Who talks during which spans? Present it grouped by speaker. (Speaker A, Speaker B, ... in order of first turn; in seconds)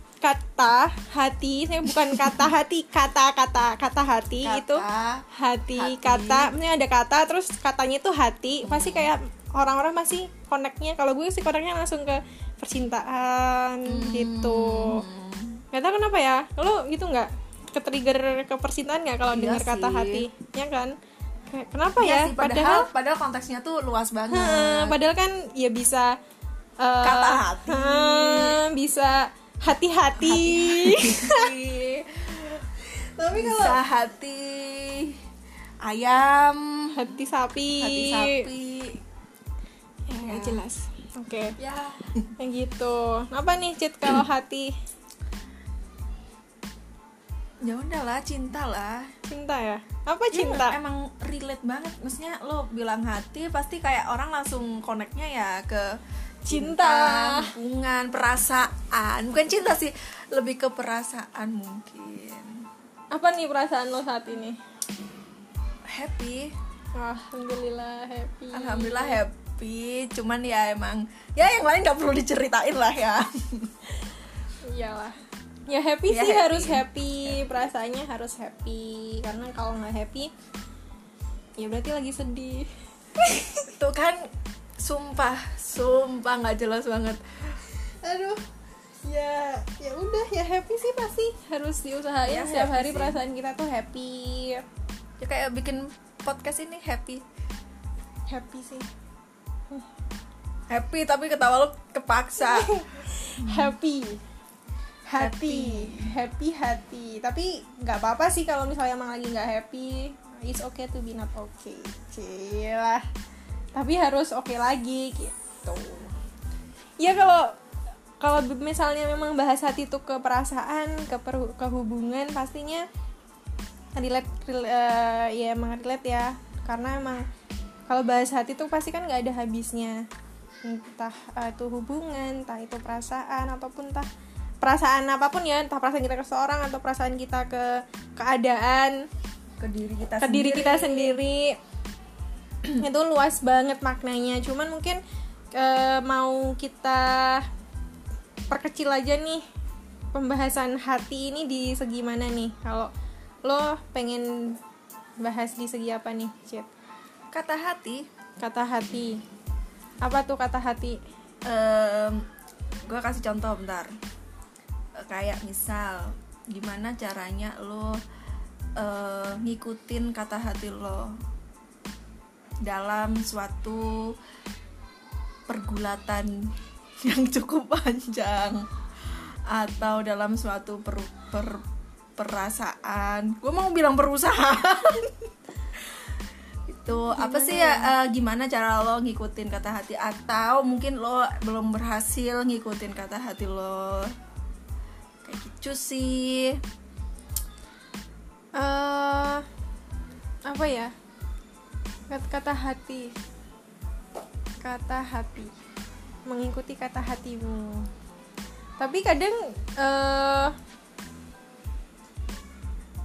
Speaker A: 0.2-4.8, 5.3-15.0, 15.7-20.9, 21.5-22.9, 24.3-26.2, 26.8-31.5, 33.2-33.8, 36.9-38.5, 40.1-41.5, 42.4-44.7, 49.3-50.8, 56.5-57.5, 63.1-64.6, 67.0-69.2, 74.7-80.3, 81.6-83.7, 88.0-88.5, 89.0-94.6, 98.3-98.9, 102.4-104.2, 105.1-113.0, 113.7-116.1, 117.0-117.5, 118.2-122.8, 124.0-127.2, 127.9-130.0, 130.6-134.1, 134.6-139.0, 140.2-141.6, 142.8-145.0, 145.5-147.4, 148.5-149.4, 150.1-152.9, 153.4-154.6, 155.2-156.7, 158.4-159.2, 160.0-161.0, 186.9-187.9, 198.6-199.4, 200.5-200.9, 202.1-203.1, 204.6-205.5, 206.3-207.9, 208.8-210.5
Speaker B: 4.4-5.2, 5.8-6.5, 8.6-9.1, 13.9-15.6, 19.3-20.3, 22.0-24.9, 27.0-28.6, 30.2-32.6, 33.3-35.1, 35.8-36.9, 37.8-39.0, 40.2-40.6, 41.6-42.3, 47.6-49.1, 50.3-56.0, 56.5-62.6, 65.9-66.5, 68.5-73.7, 76.1-77.5, 83.8-84.2, 84.8-87.6, 92.2-93.2, 95.2-97.2, 100.7-102.7, 103.4-103.7, 105.2-106.1, 139.6-141.2, 157.3-158.1, 161.4-162.2, 162.8-163.9, 165.0-168.0, 168.8-171.2, 172.6-174.1, 175.5-176.3, 177.0-181.6, 182.2-185.2, 186.7-194.1, 195.2-196.6